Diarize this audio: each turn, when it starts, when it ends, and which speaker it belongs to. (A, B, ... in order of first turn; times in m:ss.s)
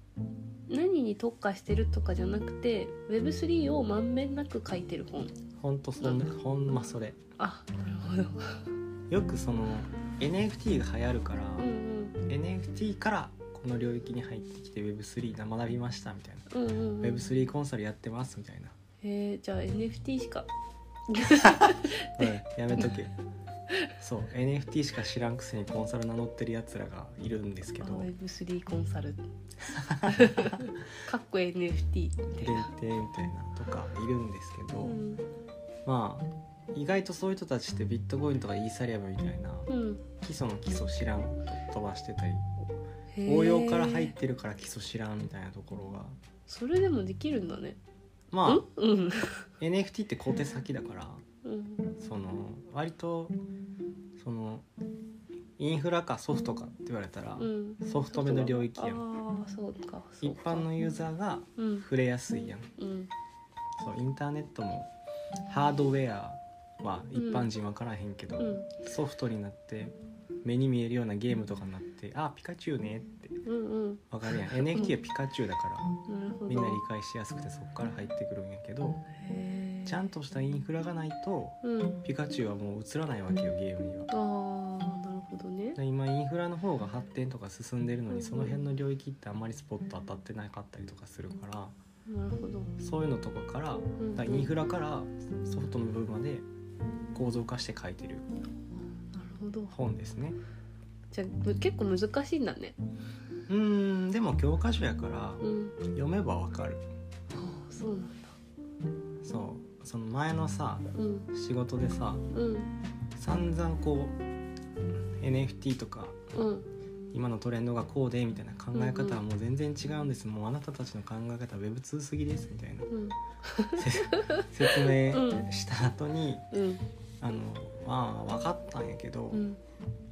0:00.7-0:05.3 A
0:05.6-0:07.2 B
0:07.4-0:08.7 A
0:09.1-0:11.7 B
0:11.6-0:12.2 A
0:12.2-0:16.5 B
0:16.5-0:17.2 A
0:17.0-0:18.7 B
0:19.0-0:20.5 A
0:21.1-0:22.2 A
0:21.7-0:23.1 B
0:24.0-0:28.1 B
0:27.8-0:29.2 A
0:29.7-0:30.6 B
0:30.0-0:32.7 A
0:32.4-0:35.0 B
0:34.8-0:35.2 A
0:35.8-0:39.7 B
0:39.7-0:40.0 A
0:40.2-0:42.6 B
0:43.1-0:44.1 A
0:43.2-0:46.2 B
0:46.5-0:47.8 A
0:48.3-0:48.6 B
0:48.4-0:49.4 A
0:49.6-0:51.2 B
0:51.4-0:51.9 A
0:52.0-0:53.4 B
0:54.2-0:54.7 B
0:55.6-0:59.0 B
0:57.4-1:00.7 A
1:00.2-1:02.7 B
1:01.6-1:01.8 A
1:02.8-1:03.1 A
1:03.8-1:04.9 B
1:05.5-1:13.4 B
1:07.2-1:07.5 A
1:08.4-1:08.7 A
1:13.4-1:14.0 A
1:14.1-1:15.9 B
1:14.6-1:14.9 A
1:16.0-1:16.8 A
1:16.5-1:19.0 B
1:19.2-1:20.1 A
1:19.8-1:24.1 B
1:21.6-1:22.0 A
1:24.1-1:25.8 A
1:25.8-1:31.7 B
1:28.1-1:28.5 A
1:32.1-1:32.7 A
1:32.8-1:36.4 B
1:34.0-1:34.5 A
1:37.1-1:38.2 B
1:38.9-1:39.7 A
1:39.7-1:40.4 B
1:41.1-1:42.8 A
1:43.5-1:46.8 B
1:45.4-1:45.8 A
1:47.3-1:48.3 A
1:49.2-1:52.2 B
1:50.9-1:51.3 A
1:52.3-1:52.7 A
1:53.2-1:54.2 B
1:55.2-1:56.2 B
1:56.3-1:56.7 A
1:57.1-2:02.9 B
1:58.7-1:59.2 A
2:02.9-2:05.5 A
2:03.8-2:06.5 B
2:06.5-2:06.8 A
2:07.2-2:09.5 B
2:09.3-2:09.6 A